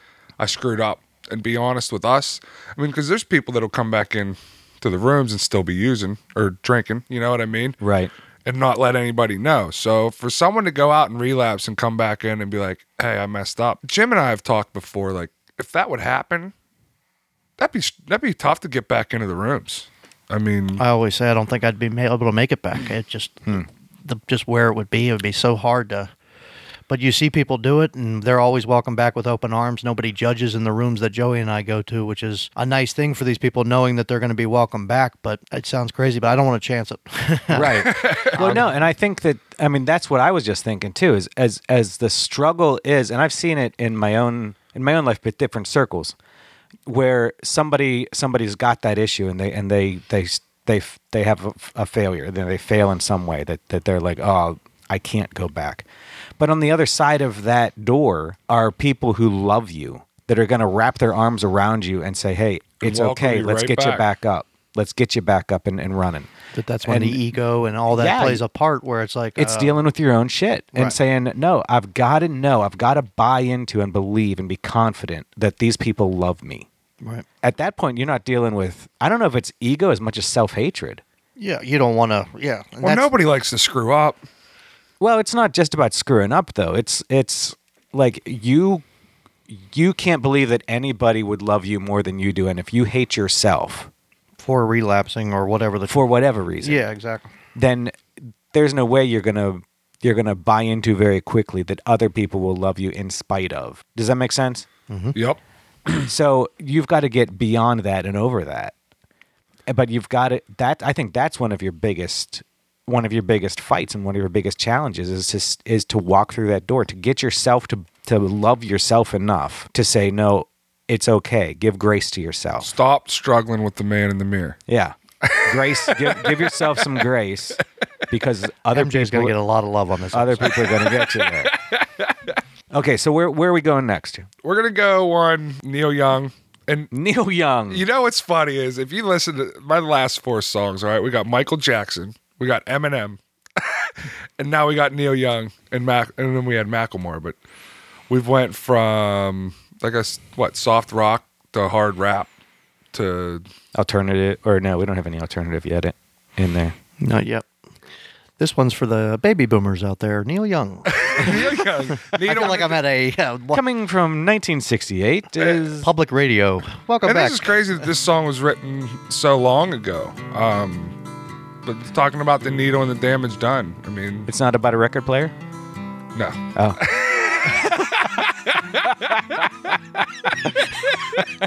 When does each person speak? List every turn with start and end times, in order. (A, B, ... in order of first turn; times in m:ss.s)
0:00.4-0:07.8 A
0:07.8-0:08.1 B
0:08.4-0:16.5 A
0:17.6-0:20.8 A
0:20.8-0:26.1 C
0:26.9-0:38.7 C
0:37.5-0:46.1 B
0:37.8-0:38.6 A
0:46.8-0:55.8 B
0:56.4-1:06.3 B
1:02.8-1:04.0 A
1:06.5-1:09.8 C
1:06.9-1:07.2 B
1:07.9-1:08.4 B
1:09.4-1:16.7 B
1:17.4-1:21.0 B
1:21.4-1:23.1 C
1:22.8-1:24.2 A
1:25.0-1:28.8 B
1:29.5-1:33.9 B
1:34.4-1:36.0 C
1:35.9-1:36.8 B
1:36.6-1:37.3 C
1:37.5-1:44.6 B
1:44.9-1:45.2 C
1:46.0-1:48.7 B
1:49.7-2:02.7 B
2:02.6-2:04.6 A
2:04.7-2:09.3 B
2:05.2-2:07.0 A
2:08.7-2:10.7 C
2:10.1-2:11.5 B
2:10.9-2:12.3 A
2:12.7-2:14.3 B
2:14.4-2:16.9 A
2:16.9-2:17.8 B
2:17.7-2:27.4 A
2:28.1-2:32.3 A
2:32.9-2:33.4 A
2:33.7-2:36.7 B
2:37.0-2:37.4 C
2:38.4-2:43.6 C
2:40.9-2:42.8 A
2:43.5-2:45.9 B
2:45.8-2:47.6 C
2:47.0-2:51.0 A
2:51.6-2:54.3 A
2:54.3-2:55.3 B
2:56.1-2:59.4 A
2:56.5-2:56.8 B